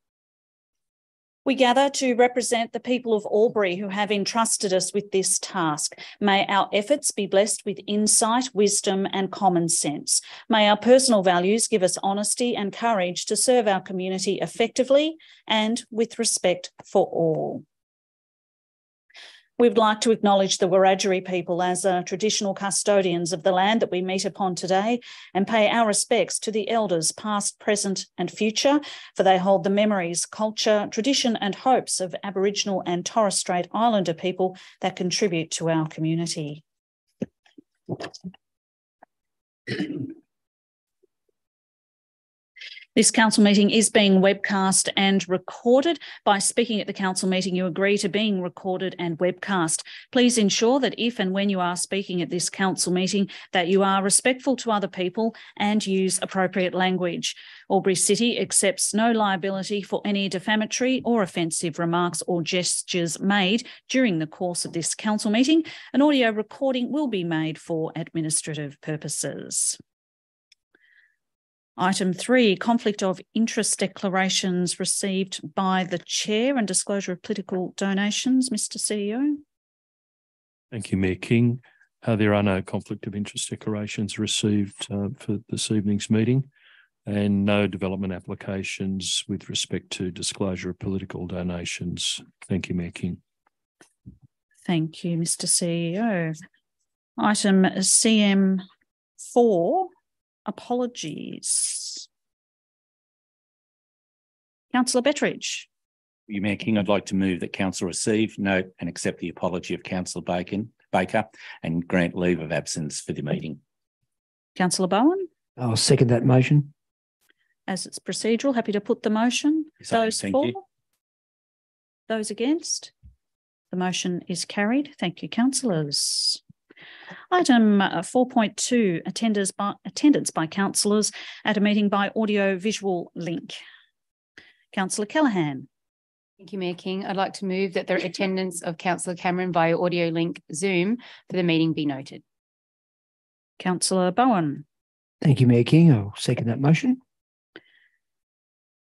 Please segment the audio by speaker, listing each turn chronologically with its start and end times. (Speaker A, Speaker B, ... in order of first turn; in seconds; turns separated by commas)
Speaker A: 1.4-17.6, Speaker A: 19.6-36.6, Speaker A: 42.9-69.8, Speaker A: 71.8-79.4, Speaker B: 80.7-86.5, Speaker B: 87.0-93.2, Speaker A: 94.7-96.3, Speaker A: 97.2-98.7, Speaker A: 99.2-99.9, Speaker A: 100.5-102.1, Speaker A: 104.7-105.7, Speaker C: 106.3-113.6, Speaker A: 114.6-115.3, Speaker D: 115.6-116.7, Speaker A: 117.7-120.6, Speaker C: 119.8-120.6, Speaker A: 122.1-122.9, Speaker A: 123.7-126.4, Speaker A: 127.3-133.6, Speaker A: 134.7-135.7, Speaker E: 136.4-142.2, Speaker A: 143.6-144.6, Speaker D: 145.2-147.0